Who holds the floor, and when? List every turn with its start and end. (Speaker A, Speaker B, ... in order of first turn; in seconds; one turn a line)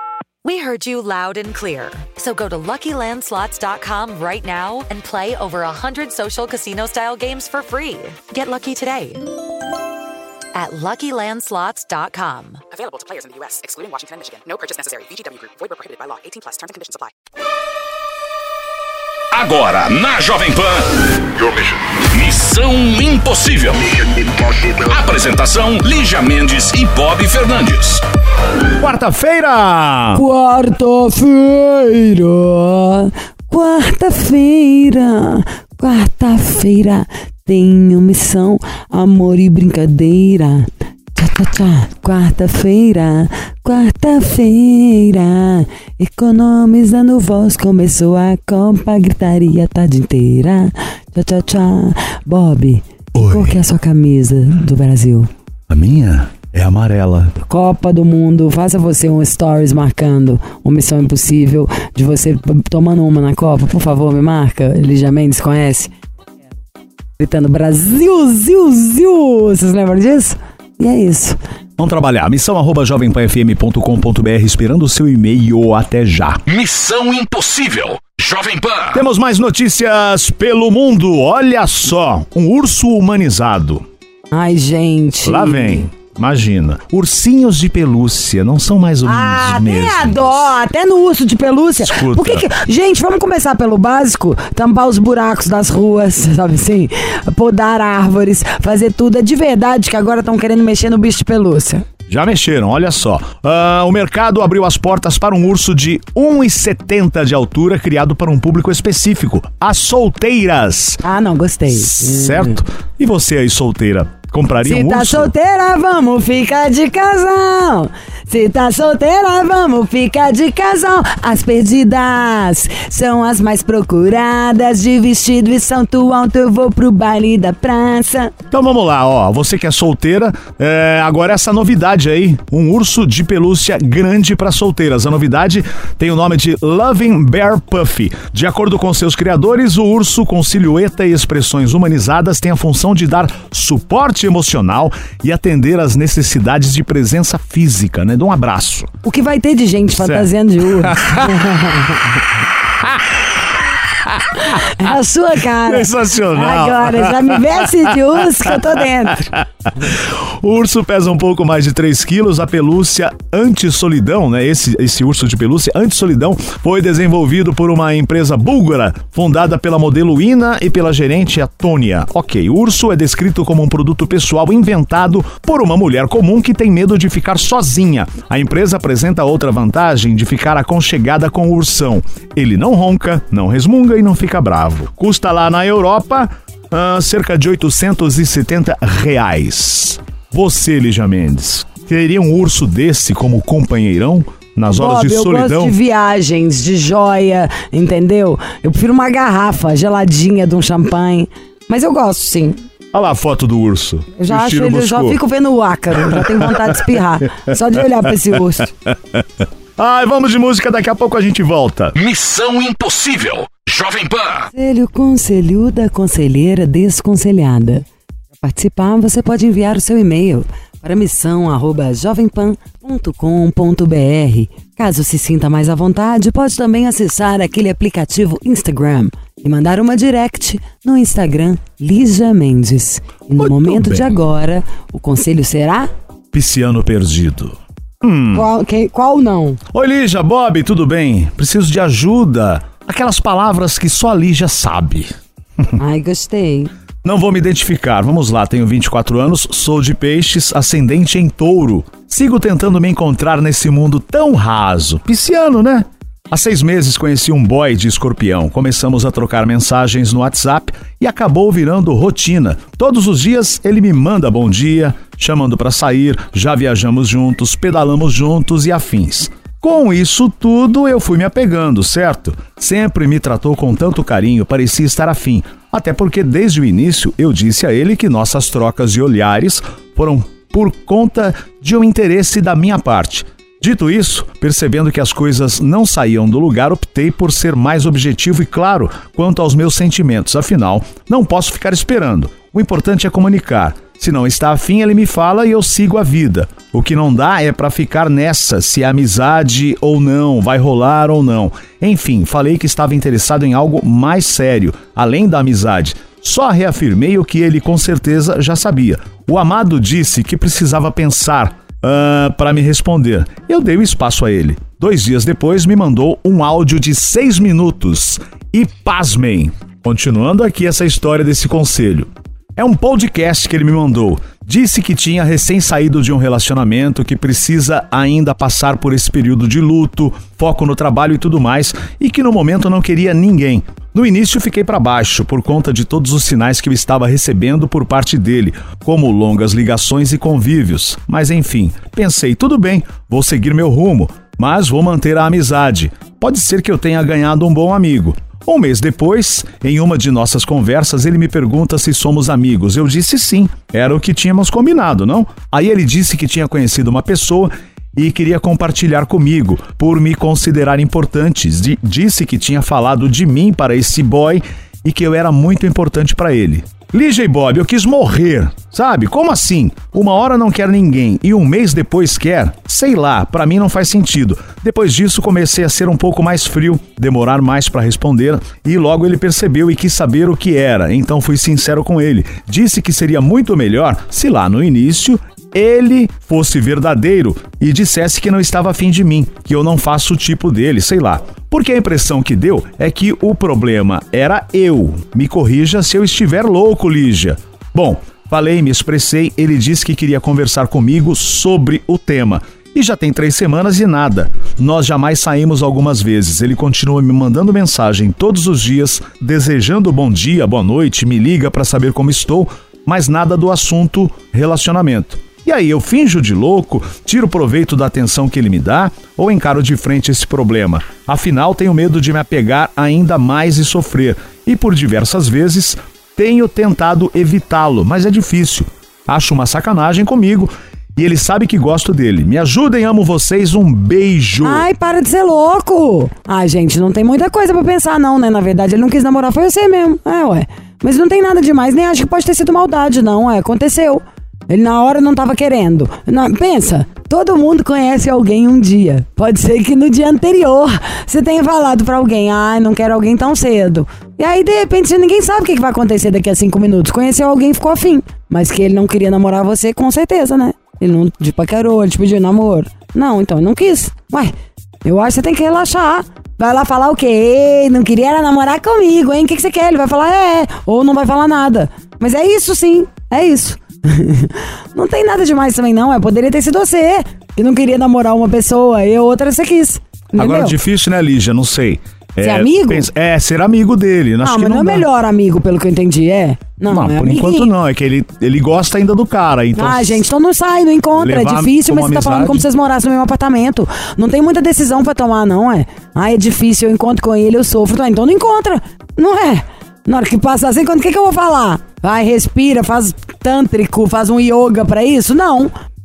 Speaker A: 0.4-9.4
Speaker A: 10.5-12.6
Speaker B: 12.7-17.1
Speaker C: 19.3-28.0
Speaker D: 28.8-30.2
Speaker E: 30.1-55.3
Speaker D: 53.1-53.6
Speaker D: 55.7-57.3
Speaker E: 57.4-65.9
Speaker E: 67.2-71.4
Speaker D: 71.8-76.4
Speaker C: 76.5-79.0
Speaker D: 78.9-83.8
Speaker E: 84.3-85.9
Speaker D: 85.2-90.3
Speaker E: 89.1-101.8
Speaker D: 91.8-92.5
Speaker D: 102.1-111.0
Speaker E: 111.0-112.6
Speaker D: 111.7-115.3
Speaker E: 114.7-128.3
Speaker D: 128.5-148.9
Speaker E: 149.0-152.2
Speaker D: 150.0-151.4
Speaker D: 152.8-153.4
Speaker D: 154.0-154.9
Speaker E: 154.5-159.3
Speaker D: 155.6-195.8
Speaker E: 194.7-202.6
Speaker D: 202.9-205.2
Speaker E: 204.2-208.7
Speaker D: 206.0-206.8
Speaker D: 208.9-209.2
Speaker D: 209.8-212.0
Speaker C: 212.0-214.5
Speaker E: 214.5-217.8
Speaker E: 218.4-235.9
Speaker D: 233.4-234.2
Speaker D: 236.3-238.5
Speaker E: 238.3-239.6
Speaker D: 239.7-245.2
Speaker E: 245.8-246.7
Speaker D: 247.0-434.7
Speaker E: 434.4-464.3
Speaker E: 464.8-480.6
Speaker D: 480.1-484.9
Speaker E: 482.2-482.9
Speaker E: 484.2-487.5
Speaker D: 486.7-490.0
Speaker E: 489.6-505.5
Speaker D: 491.0-492.5